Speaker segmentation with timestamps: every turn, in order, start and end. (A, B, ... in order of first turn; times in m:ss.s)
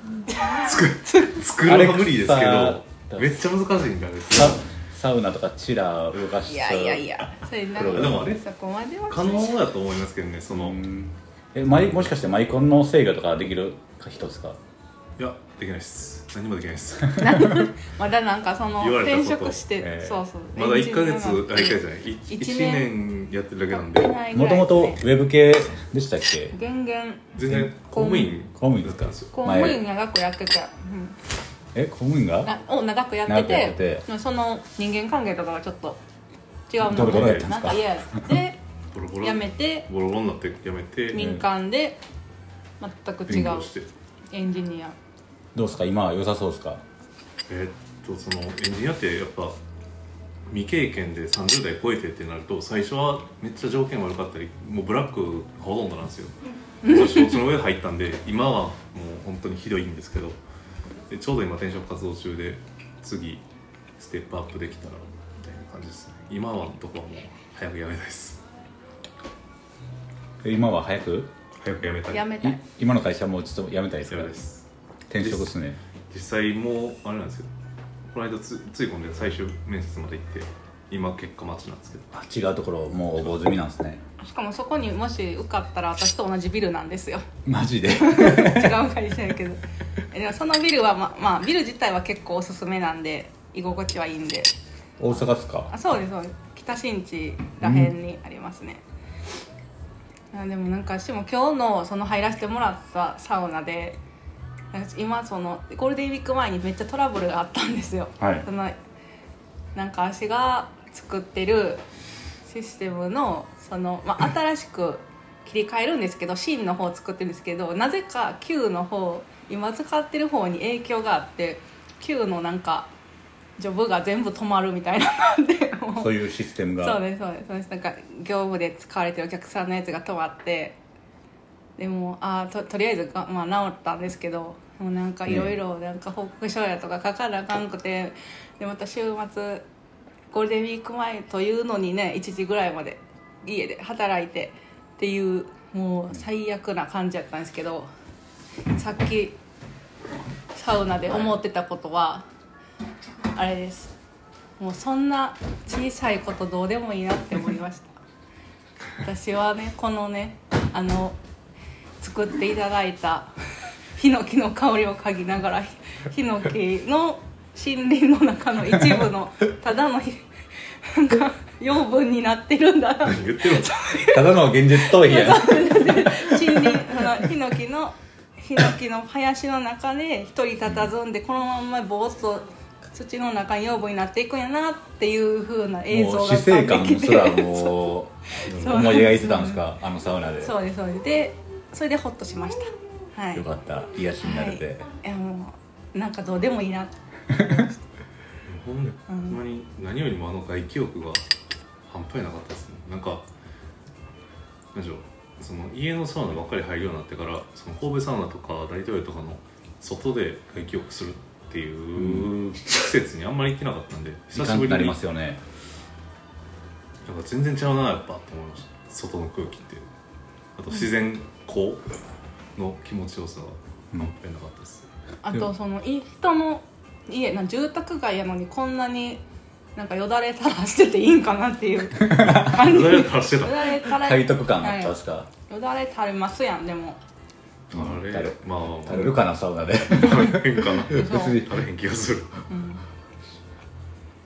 0:00.3-0:01.4 A
0:00.5-0:04.6 B
0:01.6-0:03.4 C
0:04.3-0:08.3 C
0:06.4-0:09.7 A
0:07.8-0:08.4 B
0:09.1-0:10.8 B
0:10.5-0:14.6 C
0:11.7-0:12.1 B
0:15.2-0:17.3 B
0:17.2-0:23.0 A
0:18.8-0:24.2 B
0:23.7-0:25.1 A
0:24.3-0:26.6 C
0:26.5-0:27.4 A
0:27.4-0:29.8 B
0:27.5-0:27.7 C
0:27.9-0:28.4 A
0:28.6-0:29.8 C
0:29.3-0:31.2 A
0:31.8-0:32.5 C
0:32.4-0:36.0 A
0:33.3-0:34.1 C
0:36.7-0:38.6 A
0:36.8-0:37.9 C
0:36.9-0:37.5 B
0:38.9-0:41.4 B
0:39.2-0:39.9 A
0:41.1-0:42.0 A
0:42.8-0:43.7 A
0:43.3-0:43.9 B
0:44.3-0:45.0 A
0:45.6-0:46.8 C
0:47.5-0:49.6 B
0:50.5-1:00.4 B
0:56.8-0:57.5 A
1:01.1-1:03.4 B
1:04.0-1:08.4 B
1:10.4-1:11.3 C
1:11.6-1:12.3 B
1:12.1-1:12.6 A
1:12.4-1:14.4 C
1:14.1-1:14.6 B
1:15.1-1:15.8 C
1:15.2-1:15.6 B
1:16.1-1:17.5 B
1:18.1-1:22.2 B
1:22.1-1:24.0 C
1:24.2-1:27.3 A
1:27.4-1:28.8 C
1:27.9-1:34.5 A
1:35.0-1:35.7 C
1:35.1-1:38.8 A
1:37.6-1:37.9 C
1:40.3-1:44.0 A
1:44.7-1:48.8 A
1:48.2-1:48.4 C
1:49.8-1:51.8 A
1:52.4-2:02.9 A
2:03.6-2:06.1 A
2:06.0-2:07.0 C
2:06.8-2:10.8 A
2:11.8-2:19.7 A
2:15.3-2:15.6 C
2:20.3-2:27.9 A
2:28.7-2:29.4 A
2:30.5-2:32.2 A
2:33.3-2:33.9 A
2:34.6-2:38.0 A
2:39.0-2:41.2 A
2:42.0-2:43.3 A
2:44.0-2:50.3 A
2:50.8-3:09.6 A
2:53.0-2:53.8 B
2:54.1-2:57.0 C
3:05.9-3:10.6 C
3:10.4-3:13.4 A
3:13.3-3:14.9 C
3:14.2-3:17.7 A
3:18.5-3:21.2 B
3:19.1-3:19.4 A
3:21.9-3:23.3 B
3:24.7-3:35.0 B
3:32.0-3:32.4 C
3:34.3-3:35.4 C
3:37.0-3:39.9 B
3:40.6-3:41.8 B
3:42.6-3:44.9 B
3:45.2-3:49.2 A
3:49.8-3:57.0 A
3:52.1-3:52.5 C
3:52.3-3:53.7 B
3:53.8-3:55.3 C
3:57.7-3:59.3 B
3:57.7-4:01.2 C
3:59.9-4:02.5 B
4:00.9-4:01.4 A
4:02.5-4:02.8 A